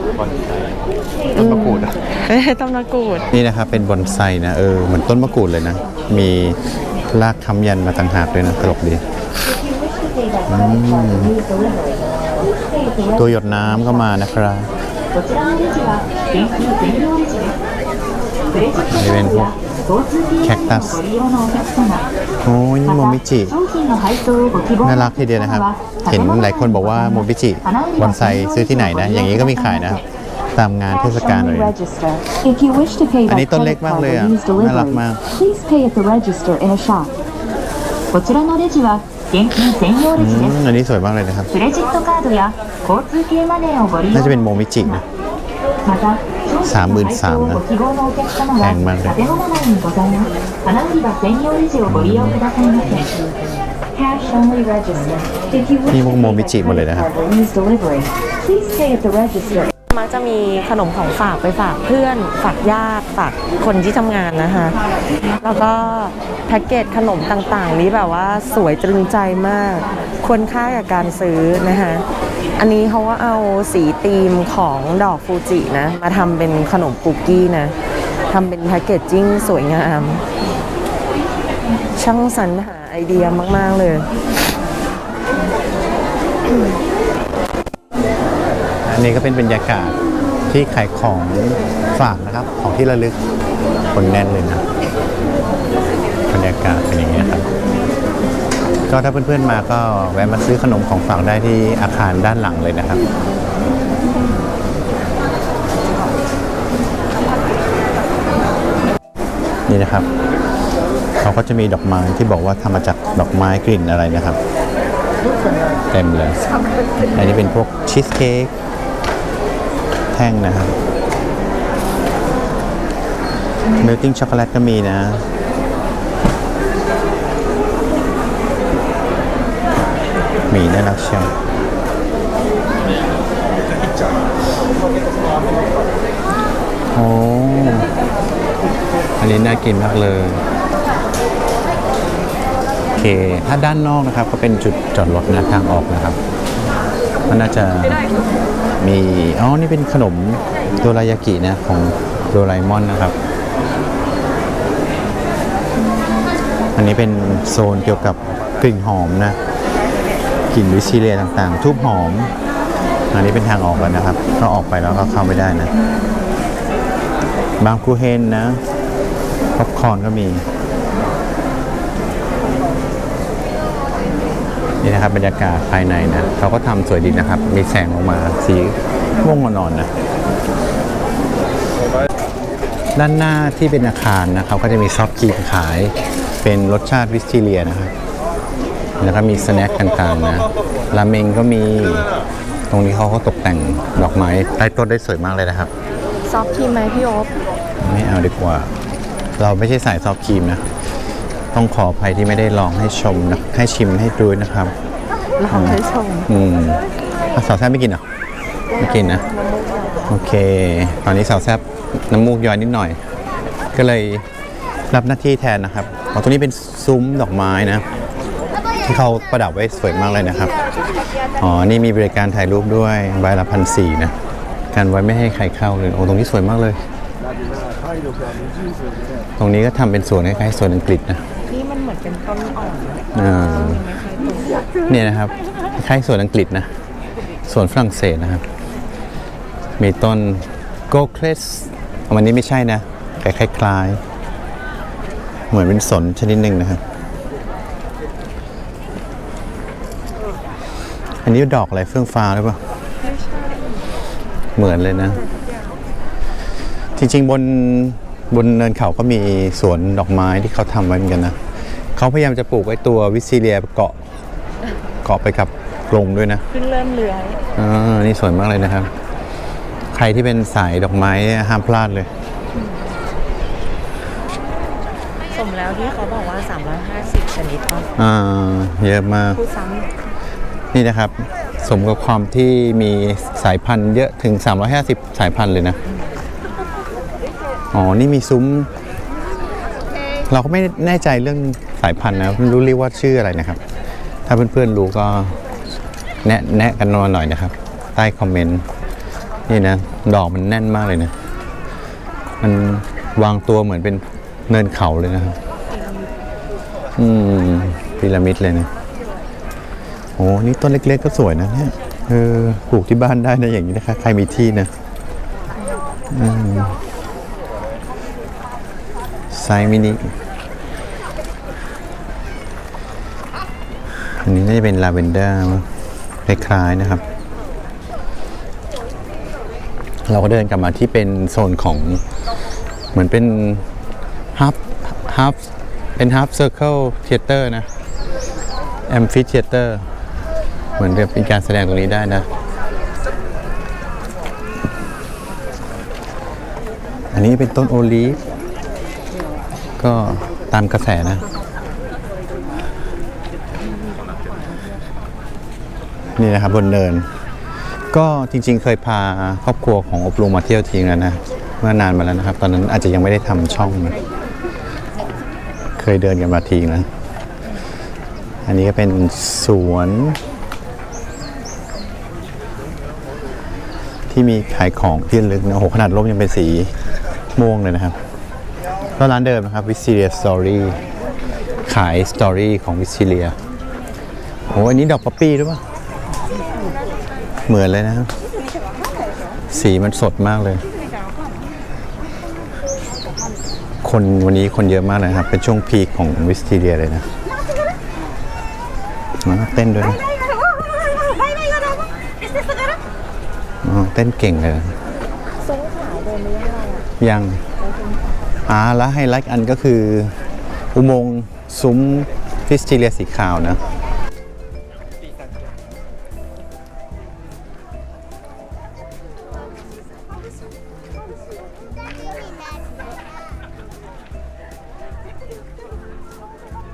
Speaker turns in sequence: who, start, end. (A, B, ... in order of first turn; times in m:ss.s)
0:00.2-0:00.8 A
0:01.3-0:02.0 A
0:01.3-0:03.3 B
0:03.3-0:06.6 A
0:07.1-0:09.0 A
0:09.4-0:14.1 C
0:10.5-0:11.3 A
0:13.1-0:14.7 A
0:15.1-0:17.6 C
0:18.5-0:22.1 C
0:18.9-0:19.5 A
0:20.4-0:21.0 A
0:22.4-0:23.6 A
0:22.8-0:30.0 C
0:24.8-0:30.0 A
0:30.6-0:31.8 A
0:31.1-0:37.1 C
0:33.3-0:35.2 A
0:38.1-0:40.6 C
0:40.2-0:41.5 A
0:41.5-0:44.3 C
0:44.1-0:45.0 A
0:45.8-0:53.1 C
0:46.6-0:47.6 A
0:48.6-0:49.2 A
0:51.9-0:52.4 A
0:53.9-0:59.7 C
0:55.9-0:57.1 A
0:59.9-1:04.8 B
1:05.4-1:12.1 B
1:12.6-1:17.8 B
1:18.3-1:20.2 B
1:22.0-1:24.1 B
1:28.8-1:33.2 A
1:33.9-1:34.6 A
1:36.3-1:37.5 A
1:38.9-1:43.0 A
1:49.7-1:50.1 A
1:51.2-1:54.4 A
1:55.9-1:56.4 A
1:57.1-1:58.5 A
2:00.1-2:00.8 A
2:03.8-2:05.3 A
2:10.5-2:11.3 A
2:16.9-2:17.9 A
2:19.2-2:20.4 A
2:23.0-2:26.2 A
2:27.3-2:28.0 A
2:28.8-2:33.2 A
2:36.8-2:39.4 A
2:40.5-2:42.3 A
2:43.1-2:45.7 A
2:47.6-2:48.6 A
2:49.5-2:50.5 A
2:54.8-2:59.9 A
3:03.0-3:07.9 A
3:09.0-3:12.1 A
3:12.7-3:15.7 A
3:16.3-3:17.3 B
3:17.8-3:18.7 A
3:19.4-3:20.6 A
3:21.5-3:24.8 A
3:25.4-3:26.3 B
3:25.5-3:26.8 A
3:27.3-3:28.0 A
3:28.8-3:29.2 A
3:30.1-3:33.0 A
3:33.7-3:34.2 A
3:34.9-3:37.8 A
3:38.8-3:40.6 A
3:41.4-3:44.2 A
3:44.7-3:46.8 A
3:49.4-3:51.2 A
3:51.4-3:54.6 B
3:53.1-3:53.8 A
3:54.9-3:56.7 A
3:57.4-3:58.4 A
3:59.8-4:04.0 A
4:05.5-4:06.8 A
4:11.2-4:12.6 A
4:14.6-4:15.2 A
4:17.0-4:21.4 A
4:22.0-4:24.1 A
4:25.0-4:26.4 A
4:26.5-4:27.4 B
4:27.6-4:28.9 A
4:29.9-4:32.1 A
4:35.3-4:37.9 B
4:38.0-4:39.4 A
4:39.4-4:39.9 B
4:40.7-4:45.8 A
4:47.7-4:48.7 A
4:50.3-4:53.6 A
4:54.3-4:55.4 A
4:56.2-4:58.6 A
4:59.5-5:01.1 A
5:02.4-5:05.4 A
5:07.0-5:08.7 A
5:10.2-5:14.7 A
5:16.1-5:16.8 A
5:19.3-5:20.1 A
5:24.2-5:25.7 A
5:26.2-5:27.0 A
5:30.1-5:32.0 A
5:32.9-5:33.6 A
5:34.3-5:37.7 A
5:38.9-5:39.9 A
5:40.8-5:42.3 A
5:47.1-5:48.2 A
5:49.8-5:51.2 A
5:56.2-5:57.1 A
5:57.9-6:04.0 A
6:05.8-6:06.9 A
6:08.5-6:10.2 A
6:14.1-6:16.8 A
6:17.4-6:18.0 A
6:19.0-6:20.8 A
6:21.7-6:23.4 A
6:24.5-6:25.6 A
6:27.5-6:28.1 A
6:29.5-6:30.6 A
6:33.8-6:37.1 A
6:39.2-6:40.0 A
6:43.6-6:44.8 A
6:45.6-6:46.8 B
6:47.0-6:47.4 A
6:48.5-6:50.2 A
6:50.7-6:53.6 A